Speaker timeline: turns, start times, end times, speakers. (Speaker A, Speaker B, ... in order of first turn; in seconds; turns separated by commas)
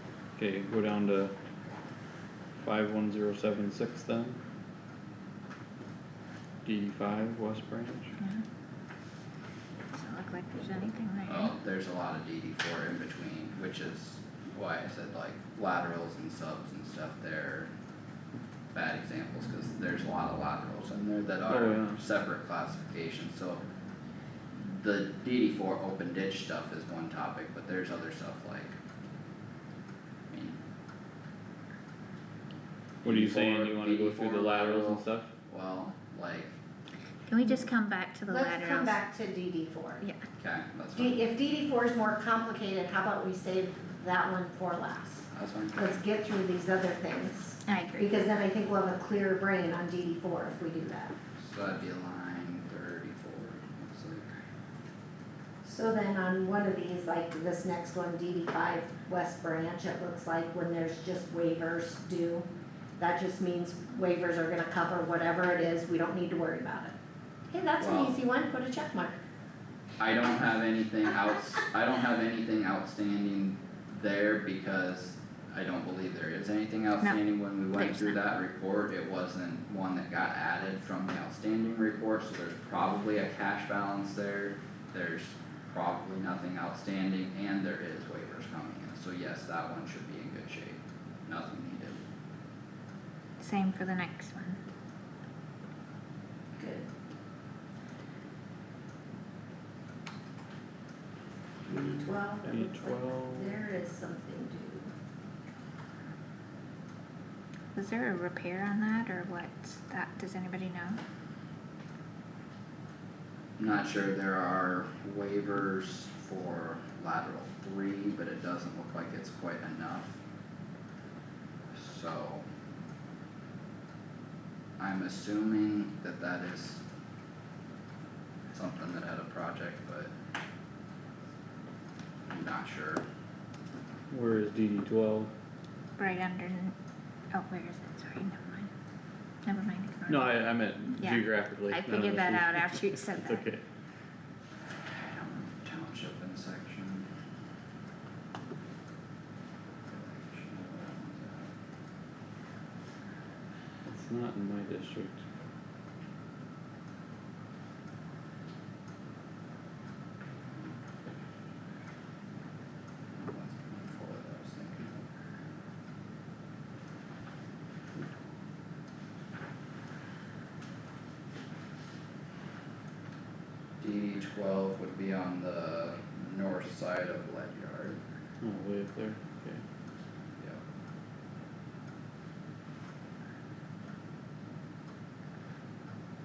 Speaker A: 0.4-1.3, Speaker A: 2.6-4.4, Speaker A: 6.6-8.1, Speaker B: 9.9-11.5, Speaker C: 11.3-17.7, Speaker C: 18.7-23.6, Speaker A: 21.5-22.0, Speaker C: 24.6-28.7, Speaker C: 30.3-30.6, Speaker C: 33.0-36.5, Speaker A: 33.0-35.3, Speaker B: 37.3-39.0, Speaker D: 38.3-40.0, Speaker C: 40.4-41.2, Speaker D: 40.9-51.1, Speaker C: 45.3-46.0, Speaker B: 47.6-48.2, Speaker C: 51.4-54.3, Speaker D: 55.6-62.5, Speaker D: 63.0-66.9, Speaker D: 67.5-69.2, Speaker C: 67.8-68.2, Speaker C: 70.0-92.0, Speaker B: 77.0-78.2, Speaker B: 93.4-94.6, Speaker D: 96.5-96.9, Speaker A: 101.7-103.6, Speaker D: 101.7-104.9, Speaker B: 107.7-111.0, Speaker C: 113.6-120.2, Speaker C: 121.7-122.5, Speaker C: 124.8-126.8, Speaker C: 128.5-130.1, Speaker C: 132.3-133.0, Speaker A: 134.1-135.3, Speaker B: 136.0-136.7, Speaker B: 137.3-138.7, Speaker B: 139.4-143.4, Speaker A: 140.1-143.6, Speaker C: 144.8-147.1, Speaker C: 149.9-151.5, Speaker A: 153.8-155.2, Speaker C: 163.1-165.0, Speaker C: 173.8-178.0, Speaker A: 178.4-179.6